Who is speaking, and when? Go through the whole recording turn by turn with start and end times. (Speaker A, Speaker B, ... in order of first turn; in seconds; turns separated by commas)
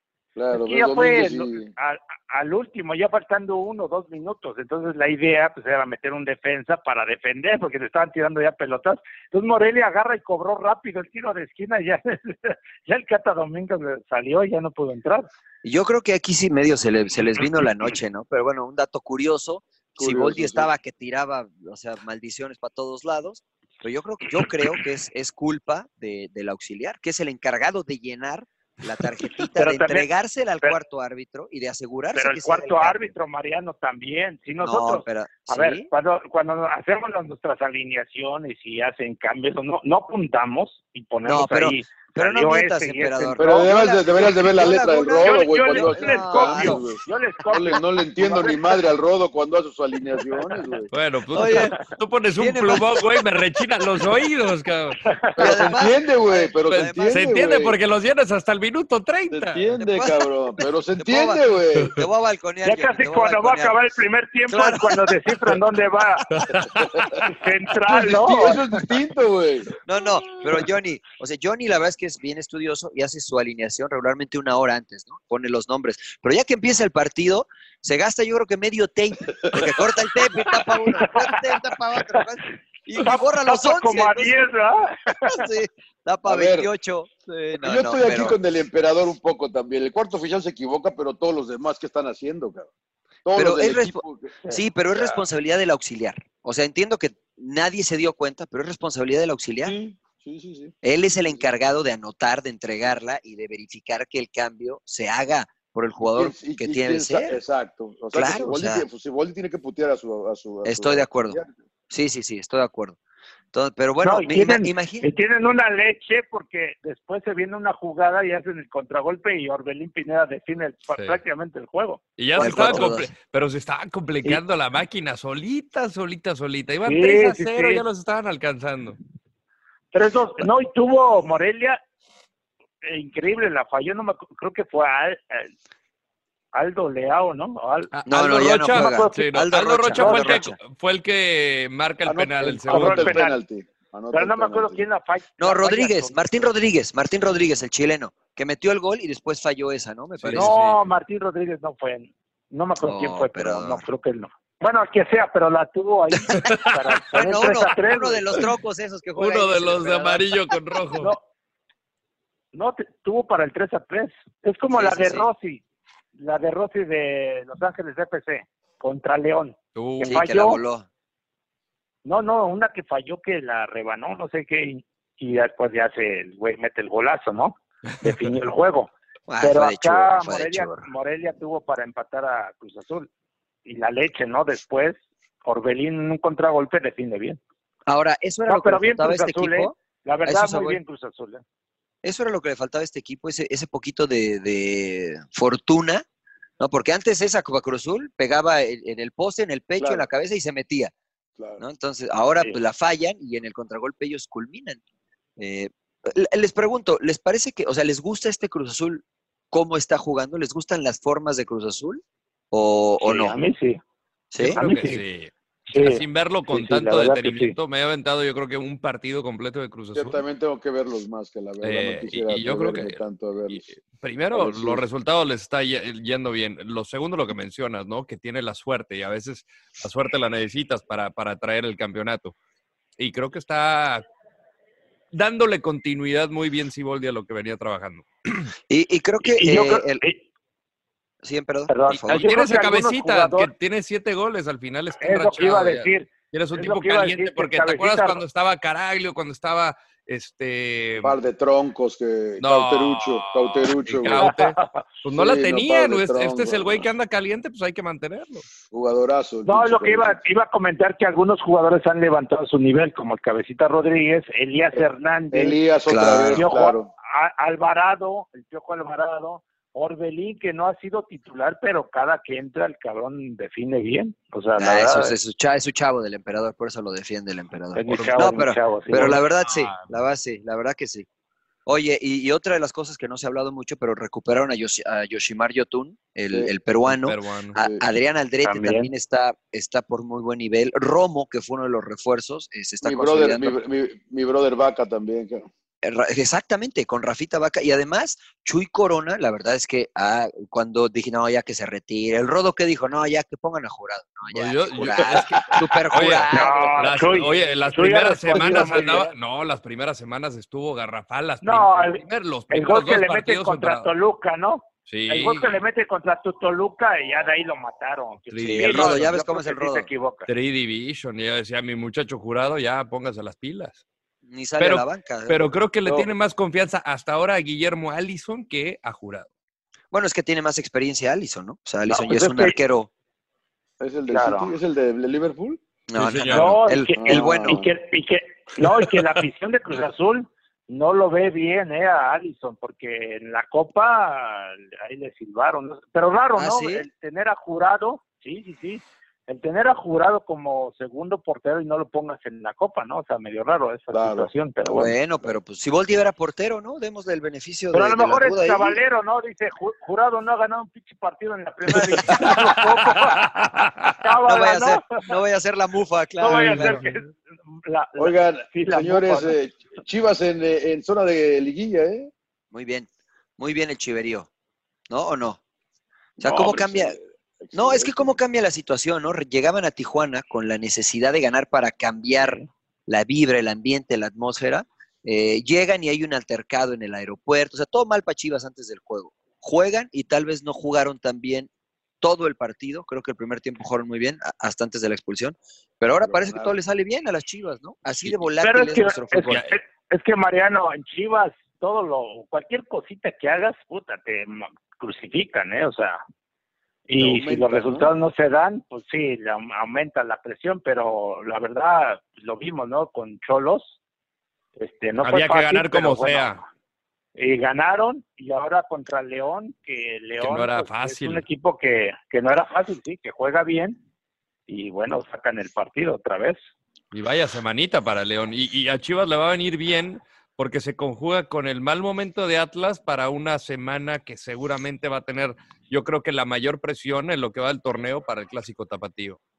Speaker A: 0.4-1.7, Speaker B: 0.5-15.3, Speaker C: 15.6-33.1, Speaker A: 20.0-20.7, Speaker B: 29.6-30.1, Speaker B: 32.1-43.7, Speaker C: 34.6-35.9, Speaker C: 41.2-47.0, Speaker A: 43.4-50.9, Speaker B: 45.2-48.8, Speaker D: 50.9-55.0, Speaker C: 51.3-51.8, Speaker B: 51.5-51.8, Speaker C: 52.4-53.0, Speaker B: 55.1-55.4, Speaker C: 55.4-57.3, Speaker A: 55.4-57.8, Speaker D: 56.7-59.7, Speaker A: 59.3-62.0, Speaker C: 59.8-60.3, Speaker C: 61.0-63.8, Speaker B: 62.6-66.3, Speaker C: 64.5-65.2, Speaker D: 66.3-67.2, Speaker B: 67.2-68.6, Speaker A: 67.9-69.7, Speaker C: 69.8-84.5, Speaker B: 80.8-81.4, Speaker B: 83.0-85.5, Speaker C: 85.2-88.4, Speaker A: 86.3-86.7, Speaker A: 87.6-92.7, Speaker A: 93.2-94.4, Speaker C: 93.3-99.8, Speaker A: 94.9-95.2, Speaker A: 99.6-100.7, Speaker C: 100.8-107.4, Speaker A: 106.0-111.5, Speaker C: 108.1-108.9, Speaker C: 110.6-111.4, Speaker C: 111.9-113.0, Speaker C: 113.5-115.1, Speaker B: 114.0-122.8, Speaker D: 122.2-129.0, Speaker C: 122.4-123.1, Speaker B: 126.8-127.8, Speaker B: 129.9-131.8, Speaker B: 132.8-135.5, Speaker B: 136.5-137.9, Speaker D: 137.9-143.2, Speaker C: 138.1-140.6, Speaker B: 138.7-139.4, Speaker B: 139.9-140.4, Speaker A: 142.1-144.8, Speaker B: 142.7-143.4, Speaker B: 144.1-146.2, Speaker C: 145.4-150.5, Speaker D: 150.2-150.8, Speaker B: 150.3-158.4, Speaker C: 152.8-153.8, Speaker D: 156.4-156.8, Speaker C: 157.1-160.4, Speaker D: 159.2-161.1, Speaker B: 162.5-165.6, Speaker C: 164.7-165.3, Speaker B: 166.2-170.6, Speaker D: 169.8-170.2, Speaker C: 170.0-170.9, Speaker B: 172.1-183.1, Speaker D: 178.1-178.3, Speaker C: 179.3-180.9, Speaker B: 183.7-187.4, Speaker C: 187.9-190.8, Speaker B: 188.5-191.4, Speaker C: 192.0-196.1, Speaker C: 196.6-200.9, Speaker A: 199.8-200.1, Speaker C: 201.6-204.8, Speaker C: 205.4-213.3, Speaker B: 213.0-213.8, Speaker C: 214.3-214.6, Speaker D: 214.4-220.2, Speaker B: 214.6-215.0, Speaker B: 215.7-217.6, Speaker A: 219.9-223.6, Speaker D: 221.6-223.0, Speaker D: 223.5-232.3, Speaker A: 224.3-224.8, Speaker D: 233.0-234.1, Speaker D: 235.1-238.5, Speaker C: 238.7-240.0, Speaker B: 239.2-240.2, Speaker C: 241.2-242.4, Speaker B: 241.7-243.5, Speaker D: 242.1-251.2, Speaker B: 245.0-248.2, Speaker A: 251.0-254.3, Speaker D: 252.4-258.5, Speaker B: 254.2-254.8, Speaker A: 255.1-256.9, Speaker A: 258.7-260.2, Speaker B: 259.4-265.6, Speaker A: 264.8-266.9, Speaker C: 265.9-266.5, Speaker B: 266.4-275.2, Speaker C: 274.6-281.1, Speaker B: 277.8-279.2, Speaker D: 277.9-278.4, Speaker D: 278.9-279.9, Speaker C: 281.7-293.6, Speaker D: 286.9-287.6, Speaker A: 287.6-287.8, Speaker B: 288.4-288.9, Speaker A: 292.8-295.5, Speaker C: 295.8-307.2, Speaker D: 304.3-313.9, Speaker A: 304.9-305.6, Speaker B: 306.3-309.1, Speaker A: 308.3-309.1, Speaker B: 311.4-320.3, Speaker D: 314.9-315.5, Speaker D: 318.3-319.1, Speaker C: 318.4-319.9, Speaker D: 320.3-323.8, Speaker C: 324.2-325.5, Speaker D: 324.6-329.3, Speaker C: 329.9-332.9, Speaker B: 331.9-332.6, Speaker A: 333.8-335.6, Speaker B: 334.1-334.5, Speaker C: 335.9-337.6, Speaker D: 336.0-336.6, Speaker B: 336.3-354.9, Speaker A: 337.0-337.7, Speaker C: 346.4-346.9, Speaker A: 353.9-354.3, Speaker C: 354.7-358.8, Speaker B: 357.7-363.3, Speaker A: 362.1-362.6, Speaker D: 362.2-364.0, Speaker B: 363.9-365.0, Speaker C: 364.2-366.8, Speaker B: 366.2-369.4, Speaker D: 366.3-366.9, Speaker A: 368.0-372.1, Speaker C: 372.5-374.3, Speaker C: 374.9-375.4, Speaker C: 376.2-377.0, Speaker A: 376.2-378.2, Speaker C: 377.5-391.5, Speaker B: 382.2-382.5, Speaker C: 392.0-399.4, Speaker A: 396.0-396.6, Speaker B: 398.4-406.0, Speaker D: 399.3-399.5, Speaker B: 406.9-413.8, Speaker A: 407.0-407.9, Speaker B: 414.6-416.4, Speaker D: 415.0-416.4, Speaker B: 417.2-423.8, Speaker D: 420.2-421.2, Speaker B: 424.5-426.4, Speaker D: 426.9-439.2